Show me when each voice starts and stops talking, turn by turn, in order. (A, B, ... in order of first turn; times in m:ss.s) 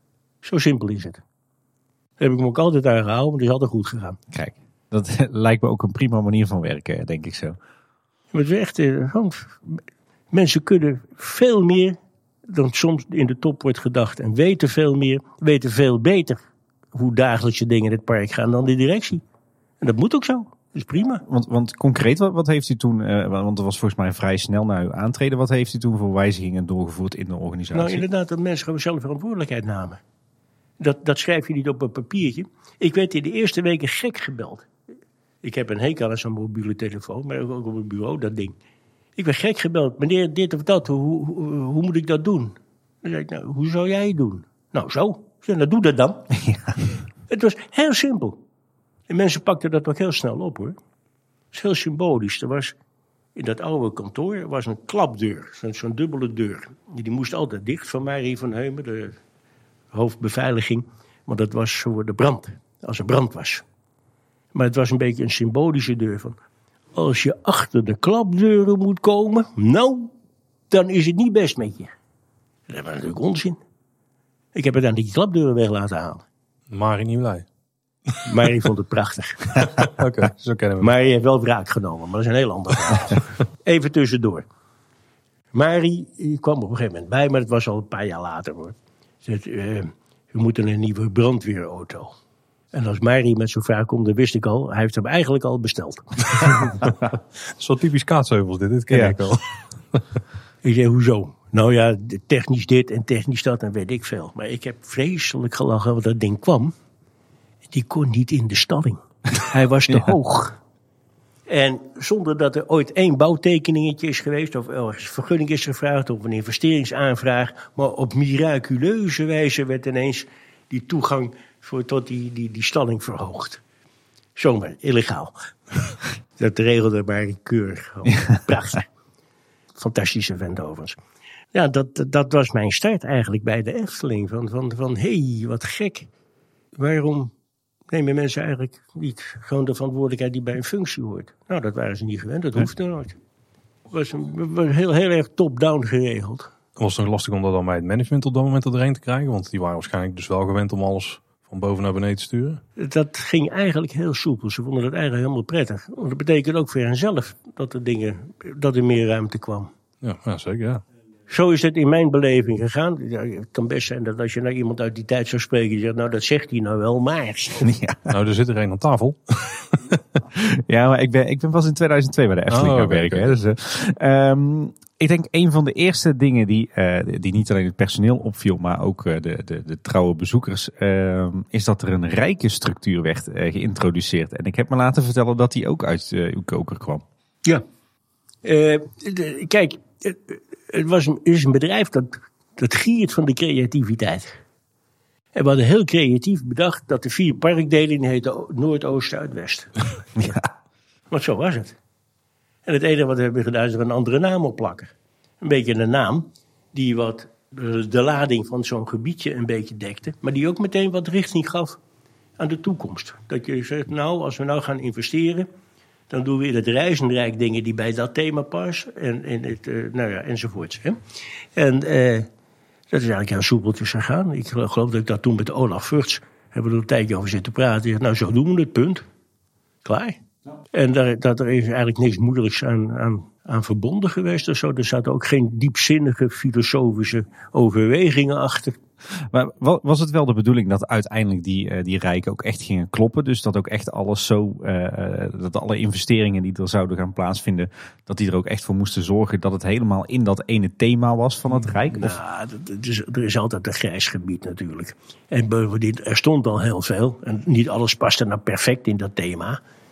0:00.4-0:01.2 A
0:02.2-0:04.2 A
0:04.3-0:07.6 B
0:08.3-0:16.4 A
0:16.9-0:19.2 A
0:19.8-0:21.2 A
0:21.3-0:28.0 B
0:27.7-0:30.0 A
0:30.8-0:34.7 A
0:35.4-0:38.6 A
0:39.2-0:46.3 A
0:46.3-0:46.8 B
0:47.3-0:48.4 A
0:49.1-0:50.8 A
0:51.5-0:52.7 A
0:53.4-0:59.2 A
0:59.9-1:03.6 A
1:04.5-1:06.4 A
1:07.0-1:10.1 A
1:10.7-1:11.9 A
1:12.7-1:13.6 A
1:14.5-1:16.2 A
1:16.7-1:17.5 C
1:18.3-1:19.6 A
1:19.6-1:20.9 C
1:20.8-1:24.5 A
1:25.5-1:32.2 A
1:32.7-1:36.7 A
1:36.4-1:36.9 C
1:37.6-1:40.0 C
1:38.9-1:39.3 B
1:40.6-1:46.7 A
1:47.7-1:50.6 A
1:51.5-2:03.6 A
2:04.4-2:05.3 A
2:06.4-2:08.9 A
2:09.8-2:11.0 A
2:11.5-2:16.1 A
2:16.8-2:17.3 A
2:17.9-2:23.2 A
2:23.9-2:26.5 A
2:26.8-2:32.6 C
2:32.8-2:39.7 A
2:40.0-2:40.8 C
2:41.3-2:47.7 A
2:47.6-2:48.1 B
2:48.1-2:50.2 C
2:50.3-3:07.0 B
2:52.5-2:53.4 C
3:08.4-3:14.4 A
3:15.4-3:20.4 A
3:21.1-3:21.8 A
3:22.7-3:31.8 A
3:32.4-3:35.5 A
3:36.1-3:41.0 A
3:41.6-3:42.3 A
3:42.9-3:49.0 A
3:49.8-3:50.2 A
3:50.7-3:58.8 A
3:59.2-4:12.2 B
4:11.9-4:19.6 A